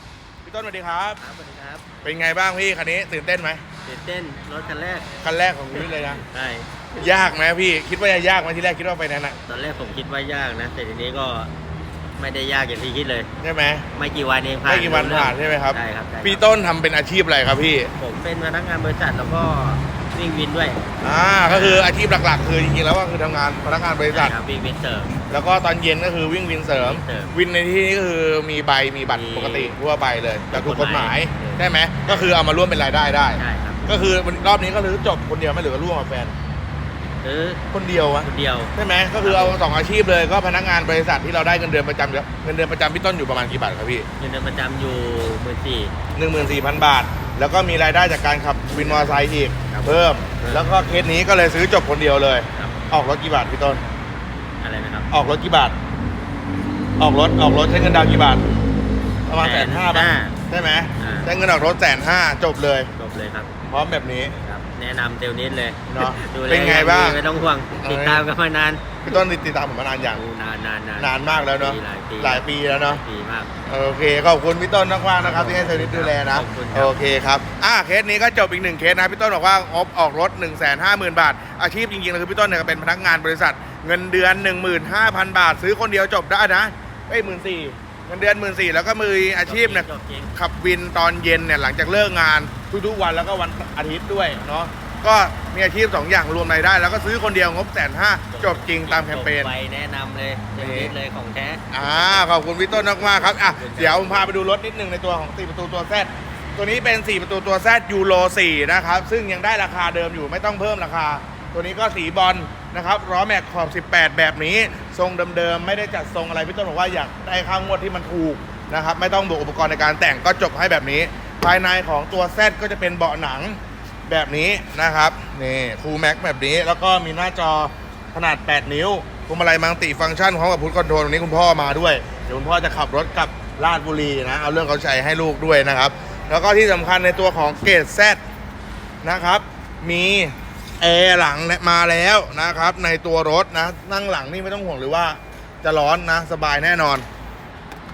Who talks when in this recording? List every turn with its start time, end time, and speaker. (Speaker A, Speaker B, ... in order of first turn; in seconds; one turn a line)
Speaker A: 0.5-1.2
Speaker B: 1.2-1.9
Speaker A: 2.0-3.6
Speaker B: 3.9-5.2
Speaker A: 5.2-6.2
Speaker B: 6.2-6.7
Speaker A: 7.0-9.4
Speaker B: 9.5-11.5
Speaker B: 12.2-13.3
Speaker A: 13.4-13.9
Speaker B: 13.9-16.4
Speaker A: 14.7-17.9
Speaker B: 18.0-20.8
Speaker A: 21.0-24.4
Speaker B: 21.4-21.9
Speaker B: 24.1-25.1
Speaker A: 25.3-36.3
Speaker B: 26.7-27.3
Speaker B: 29.1-29.8
Speaker B: 30.5-32.3
Speaker B: 33.4-33.9
Speaker B: 37.2-37.6
Speaker A: 37.7-44.1
Speaker B: 38.2-39.6
Speaker B: 44.2-45.9
Speaker A: 46.2-53.8
Speaker B: 48.7-50.7
Speaker B: 52.5-52.8
Speaker B: 54.6-55.1
Speaker A: 55.1-55.8
Speaker A: 57.0-58.5
Speaker A: 59.3-62.9
Speaker B: 59.4-60.4
Speaker B: 61.0-61.3
Speaker B: 63.0-63.5
Speaker A: 63.7-64.4
Speaker B: 64.4-69.2
Speaker A: 65.9-67.2
Speaker A: 67.8-68.2
Speaker A: 69.0-70.2
Speaker B: 70.0-73.5
Speaker A: 71.0-73.0
Speaker A: 73.7-99.5
Speaker B: 75.2-77.0
Speaker B: 89.5-90.3
Speaker B: 98.3-102.3
Speaker A: 100.6-100.9
Speaker A: 101.7-138.2
Speaker B: 102.8-104.4
Speaker A: 139.0-147.1